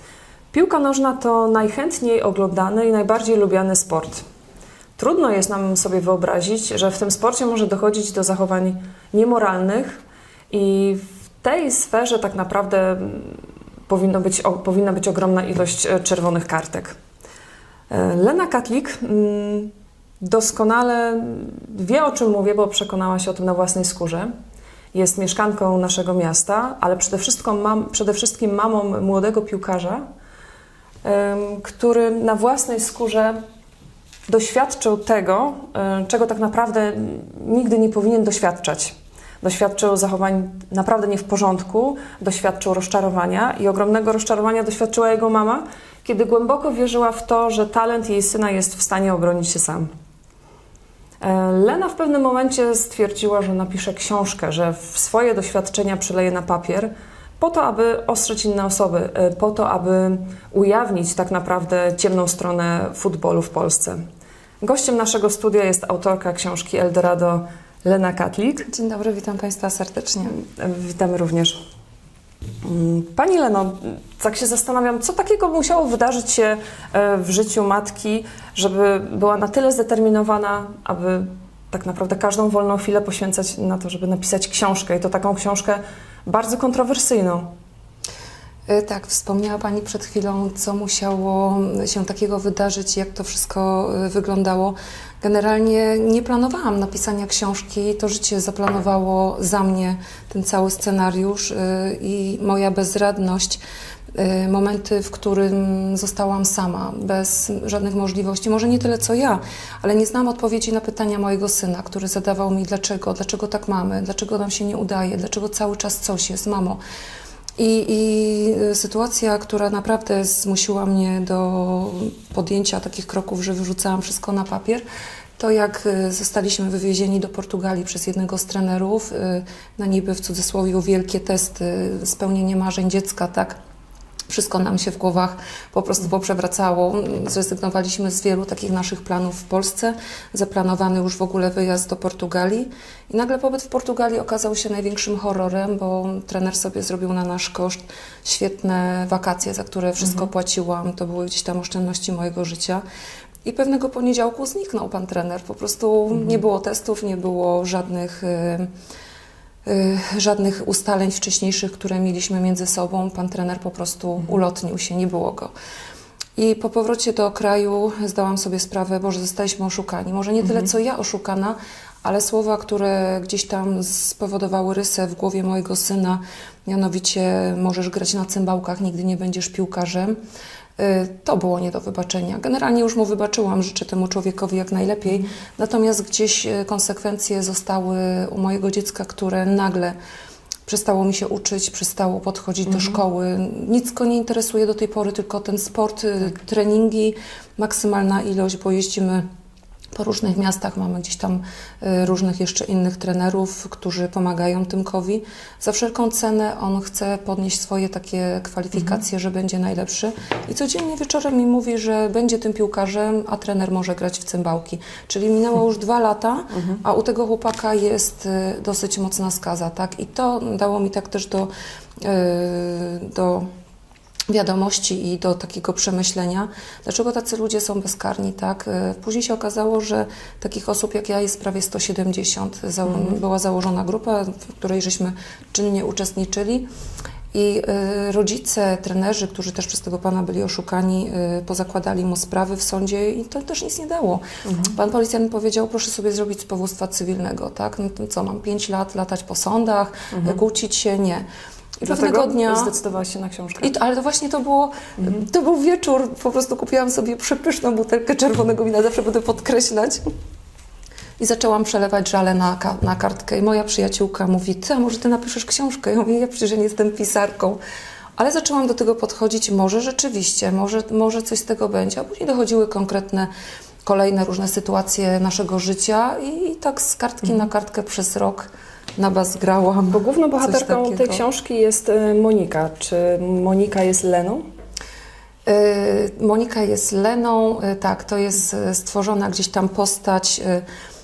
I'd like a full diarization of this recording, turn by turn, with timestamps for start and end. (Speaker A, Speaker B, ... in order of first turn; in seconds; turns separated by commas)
Speaker A: 0.5-4.2, Speaker A: 5.0-16.9, Speaker A: 17.9-24.3, Speaker A: 24.9-30.0, Speaker A: 31.0-33.4, Speaker A: 34.3-49.9, Speaker A: 51.2-64.0, Speaker A: 64.6-68.7, Speaker B: 68.7-70.3, Speaker A: 70.3-71.6, Speaker A: 72.6-87.5, Speaker B: 88.7-103.6, Speaker B: 104.1-116.8, Speaker B: 117.6-124.8, Speaker B: 125.4-133.6, Speaker B: 134.3-152.8, Speaker A: 150.0-150.3, Speaker B: 153.4-158.7, Speaker B: 159.6-165.5, Speaker B: 166.4-180.2, Speaker B: 180.8-189.9, Speaker B: 190.7-199.2, Speaker B: 199.9-221.5, Speaker A: 216.5-216.8, Speaker B: 222.0-223.5, Speaker B: 224.3-236.6, Speaker B: 237.3-251.3, Speaker A: 244.4-244.7, Speaker A: 250.1-250.4, Speaker B: 251.8-252.7, Speaker A: 251.8-253.7, Speaker B: 253.6-260.1, Speaker B: 261.2-267.6, Speaker B: 268.2-273.3, Speaker B: 273.8-281.2, Speaker A: 279.9-284.4, Speaker B: 285.4-290.6